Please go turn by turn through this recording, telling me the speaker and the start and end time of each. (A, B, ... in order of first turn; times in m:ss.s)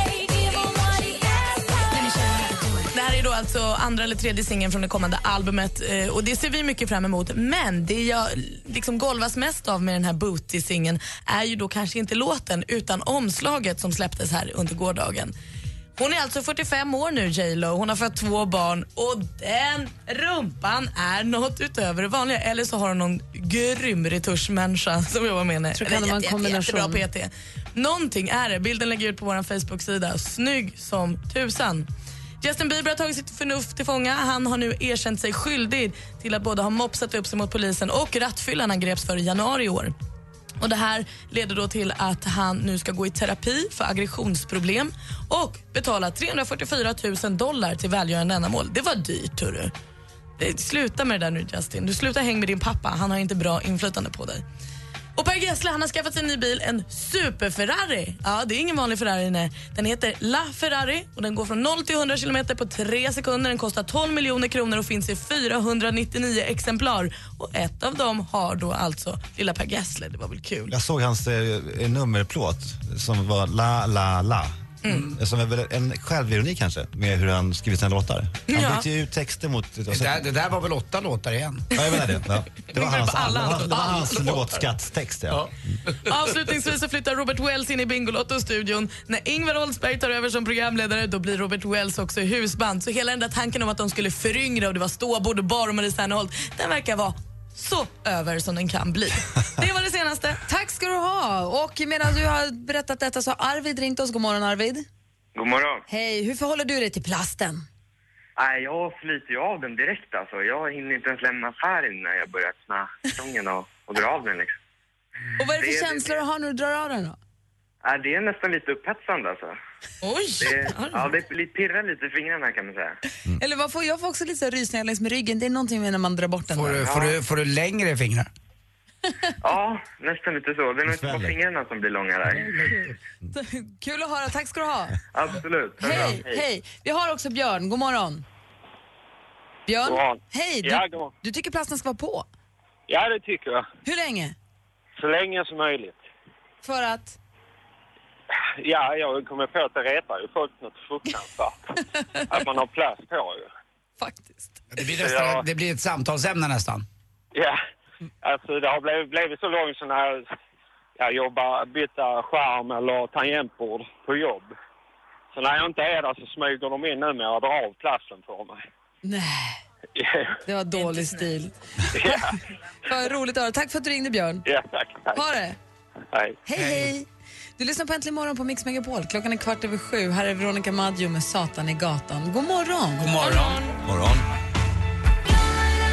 0:02.9-0:15.4 A
0:16.0-0:31.9 A
0:25.8-0:27.0 B
0:32.4-0:40.0 A
0:40.6-0:49.7 A
0:50.4-0:54.4 A
0:55.2-1:10.7 A
1:10.7-1:14.6 C
1:14.8-1:15.1 A
1:15.2-1:20.2 C
1:18.5-1:18.8 A
1:19.9-1:21.7 D
1:21.7-1:25.8 C
1:22.7-1:24.2 A
1:26.0-1:40.4 A
1:40.5-1:44.9 B
1:45.4-1:45.8 E
1:45.9-1:47.6 B
1:48.4-1:54.6 E
1:55.4-1:57.2 B
1:55.4-1:56.2 E
1:57.8-1:59.6 E
2:00.0-2:01.1 A
2:00.4-2:03.0 E
2:03.4-2:06.9 B
2:06.5-2:08.3 D
2:09.4-2:12.6 E
2:10.9-2:11.4 C
2:12.4-2:15.0 B
2:15.1-2:16.4 E
2:15.8-2:18.2 B
2:19.7-2:22.3 B
2:19.8-2:21.1 F
2:22.9-2:23.7 F
2:23.8-2:24.4 B
2:25.0-2:26.0 F
2:26.6-2:27.2 B
2:28.6-2:31.6 F
2:32.3-2:33.5 F
2:34.0-2:34.6 B
2:34.7-2:36.9 D
2:35.0-2:35.4 F
2:37.4-2:37.6 F
2:38.2-2:40.3 F
2:41.0-2:44.5 F
2:45.3-2:48.6 F
2:49.0-2:49.6 B
2:50.0-2:50.4 F
2:50.5-2:52.4 B
2:50.7-2:51.3 A
2:51.9-2:52.4 F
2:52.9-2:54.4 B
2:54.4-2:55.2 F
2:55.2-2:55.6 B
2:56.1-2:56.4 F
2:56.5-2:57.1 B
2:56.6-2:56.9 D
2:57.6-3:03.1 B
3:03.0-3:03.6 D
3:03.2-3:03.8 A
3:03.9-3:04.2 C